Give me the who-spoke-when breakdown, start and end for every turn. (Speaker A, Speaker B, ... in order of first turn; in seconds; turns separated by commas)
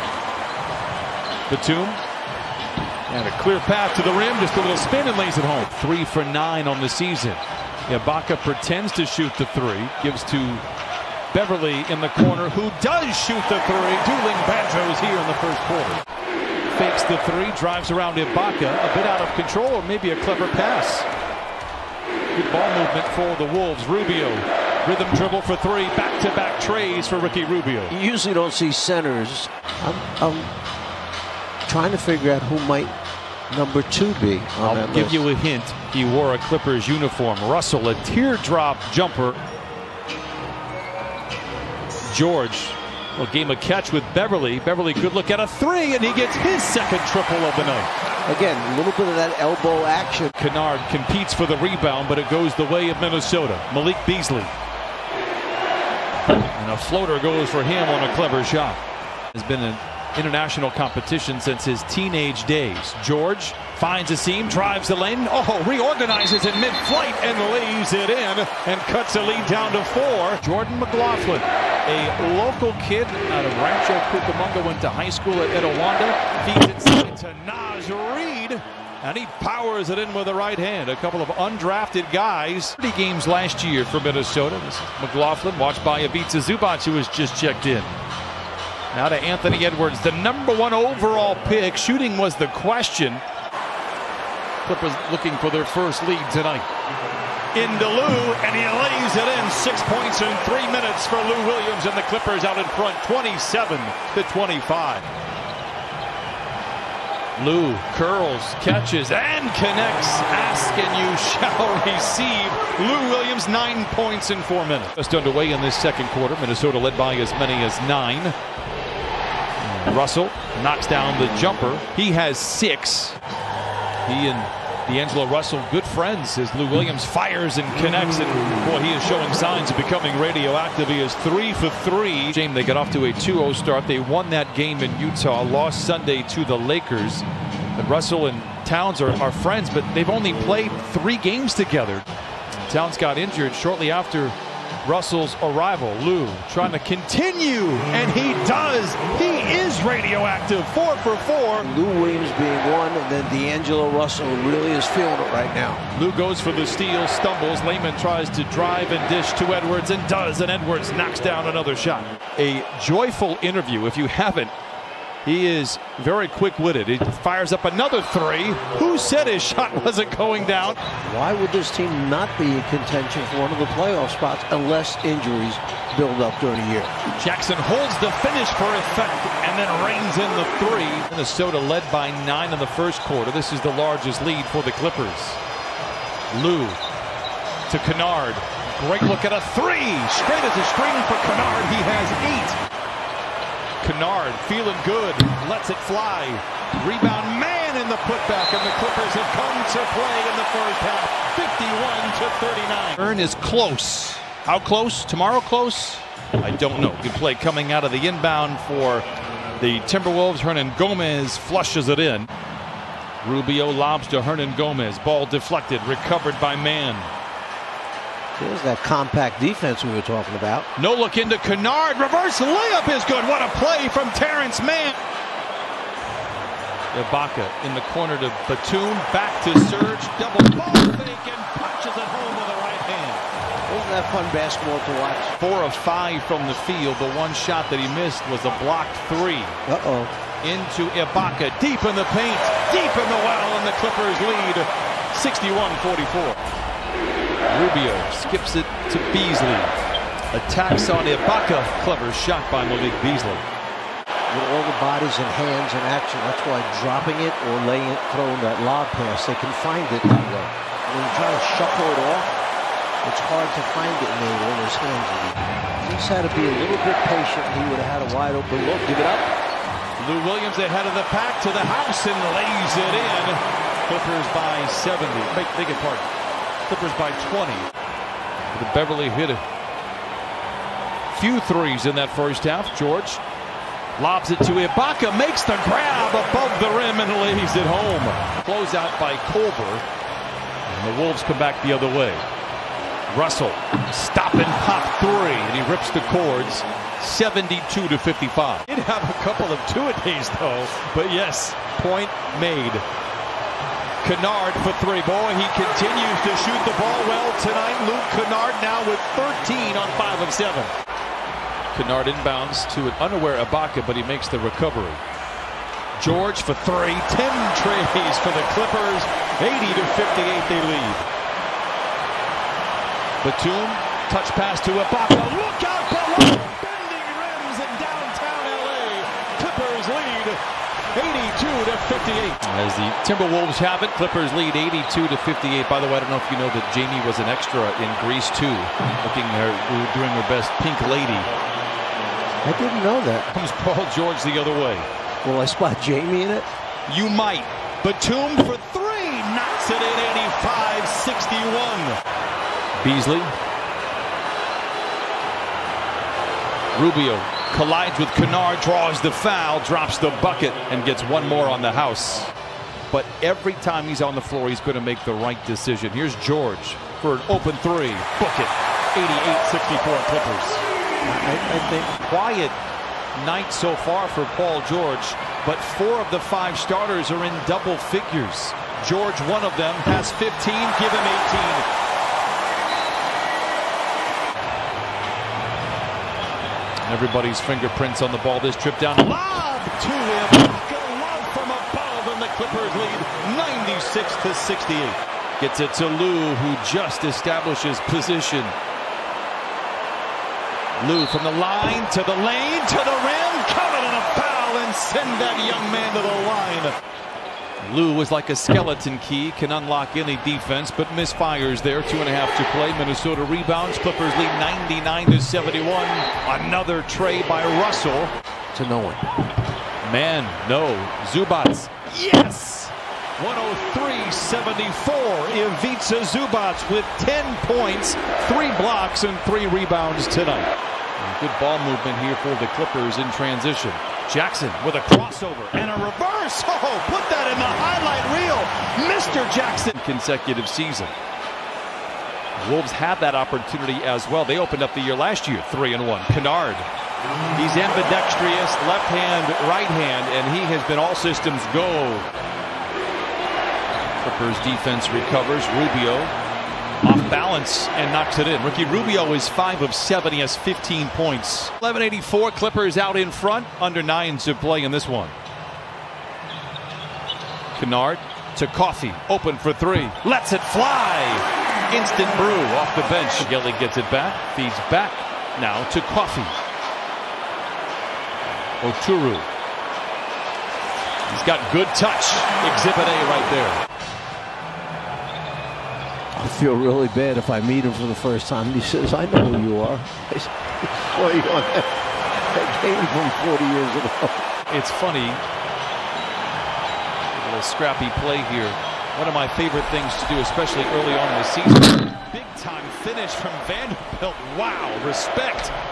Speaker A: 1.5-2.0, Speaker A: 3.1-10.6, Speaker A: 11.3-16.0, Speaker A: 16.7-21.1, Speaker A: 22.3-27.9, Speaker B: 27.9-30.5, Speaker B: 31.7-32.9, Speaker B: 33.5-35.3, Speaker A: 34.6-39.4, Speaker A: 42.1-47.9, Speaker B: 48.3-50.3, Speaker A: 50.4-54.5, Speaker A: 56.3-58.8, Speaker A: 59.3-87.9, Speaker A: 88.9-93.2, Speaker A: 94.6-96.7, Speaker A: 97.5-105.1, Speaker A: 107.4-118.4, Speaker A: 119.6-123.2, Speaker A: 124.0-142.1, Speaker A: 142.6-151.7, Speaker B: 151.6-155.9, Speaker A: 155.9-164.5, Speaker A: 165.2-170.8, Speaker B: 171.0-176.9, Speaker A: 177.1-185.4, Speaker A: 186.3-186.8, Speaker A: 187.7-192.6, Speaker A: 193.8-209.1, Speaker A: 209.6-212.3, Speaker A: 213.2-217.1, Speaker B: 218.4-220.7, Speaker A: 220.8-225.0, Speaker A: 226.9-233.3, Speaker B: 233.7-235.4, Speaker A: 235.4-239.6, Speaker B: 239.7-240.1, Speaker A: 240.4-246.4, Speaker A: 247.5-249.8, Speaker A: 250.3-253.4, Speaker B: 254.3-262.3, Speaker B: 263.0-269.3, Speaker A: 270.0-276.1, Speaker A: 276.7-277.7, Speaker A: 278.5-279.4, Speaker A: 281.1-283.2, Speaker A: 284.0-289.8, Speaker A: 290.7-292.2, Speaker A: 293.1-302.9, Speaker A: 304.0-310.7, Speaker A: 311.7-315.0, Speaker A: 316.0-321.1, Speaker A: 323.2-330.4, Speaker A: 330.9-341.3, Speaker B: 342.4-343.3, Speaker A: 343.3-344.9, Speaker B: 345.2-346.5, Speaker A: 346.9-352.0, Speaker A: 352.8-353.3, Speaker A: 356.7-362.3, Speaker A: 362.9-370.6, Speaker B: 371.1-372.0, Speaker A: 372.0-372.6, Speaker A: 373.1-381.6, Speaker A: 386.8-398.6, Speaker A: 400.8-406.7, Speaker A: 407.6-418.1, Speaker B: 418.5-419.0, Speaker A: 419.8-441.0, Speaker A: 442.4-446.7, Speaker A: 447.3-452.1, Speaker A: 454.0-456.1, Speaker A: 456.8-465.2, Speaker A: 467.6-476.4, Speaker A: 478.6-479.3, Speaker A: 481.1-483.6, Speaker B: 486.1-491.8, Speaker B: 492.3-494.2, Speaker A: 494.5-495.2, Speaker A: 497.1-505.5